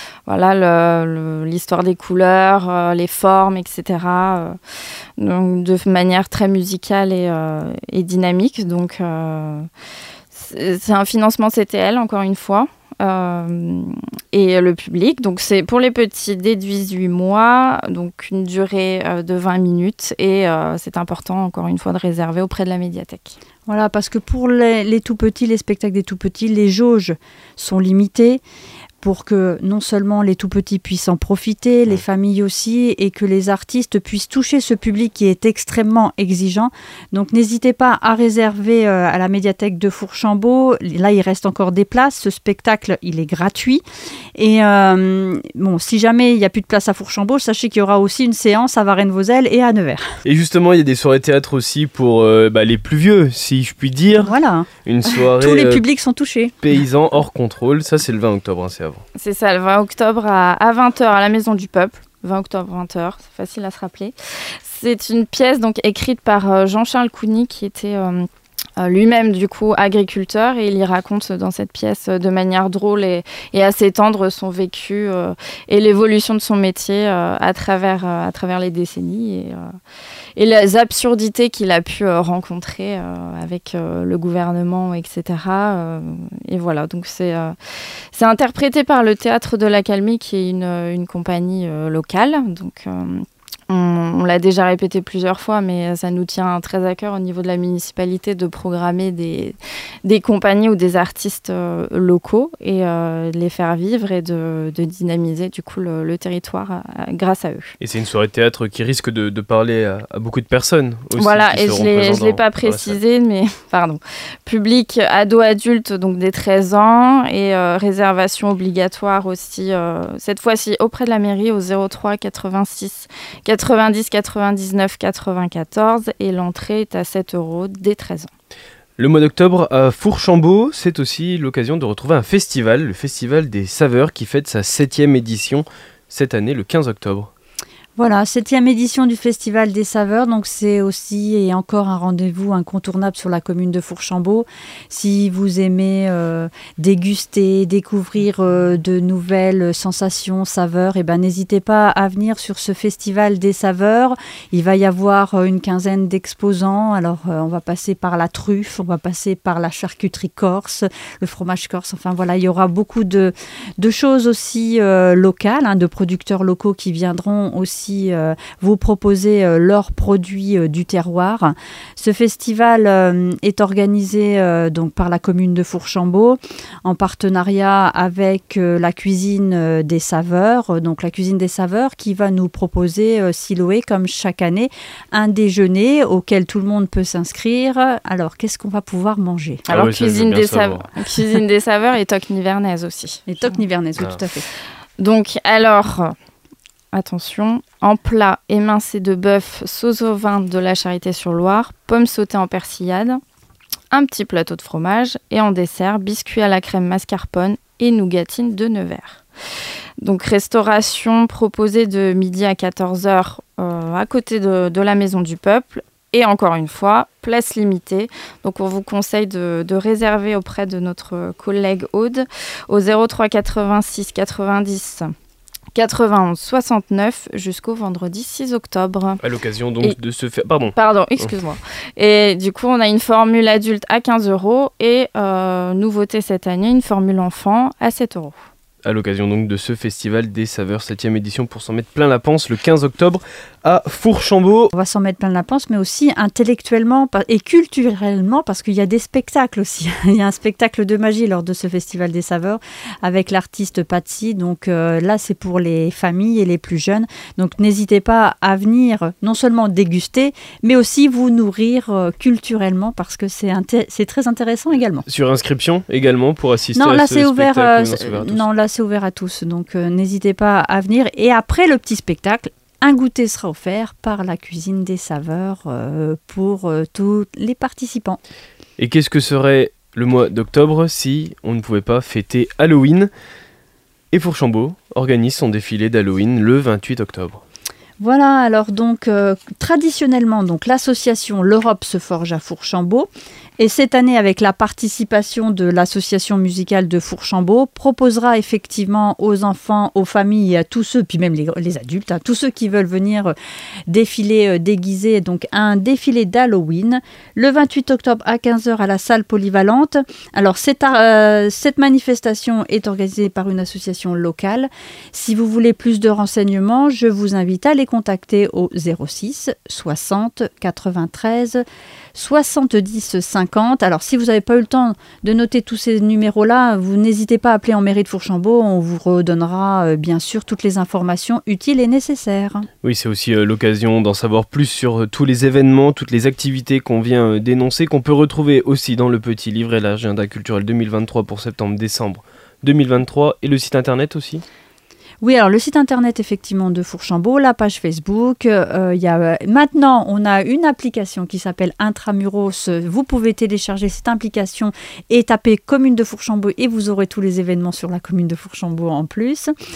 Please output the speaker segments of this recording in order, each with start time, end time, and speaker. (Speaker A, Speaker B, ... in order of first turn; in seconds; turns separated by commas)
Speaker A: 0.3-4.6, Speaker A: 5.2-9.7, Speaker A: 10.3-23.4, Speaker B: 23.7-28.4, Speaker B: 29.0-43.8, Speaker B: 44.4-50.1, Speaker C: 50.2-55.8, Speaker B: 54.2-56.5, Speaker C: 56.6-59.0, Speaker A: 59.2-68.3, Speaker A: 68.8-79.8, Speaker A: 80.4-107.8, Speaker C: 107.8-113.0, Speaker A: 111.2-128.3, Speaker C: 129.0-137.3, Speaker B: 138.0-189.6, Speaker A: 189.7-193.6, Speaker C: 189.7-190.9, Speaker B: 193.3-194.5, Speaker A: 195.0-196.1, Speaker A: 196.9-203.2, Speaker A: 203.9-209.2, Speaker A: 210.0-225.1, Speaker A: 225.7-229.2, Speaker C: 229.2-231.3, Speaker A: 230.7-238.4, Speaker C: 238.8-244.7, Speaker B: 244.7-265.1, Speaker C: 265.1-268.5, Speaker B: 266.7-278.2, Speaker C: 278.8-283.1, Speaker C: 284.1-287.4, Speaker B: 288.0-303.3, Speaker B: 303.9-321.6, Speaker B: 322.1-332.7, Speaker C: 332.8-344.4, Speaker B: 345.2-359.5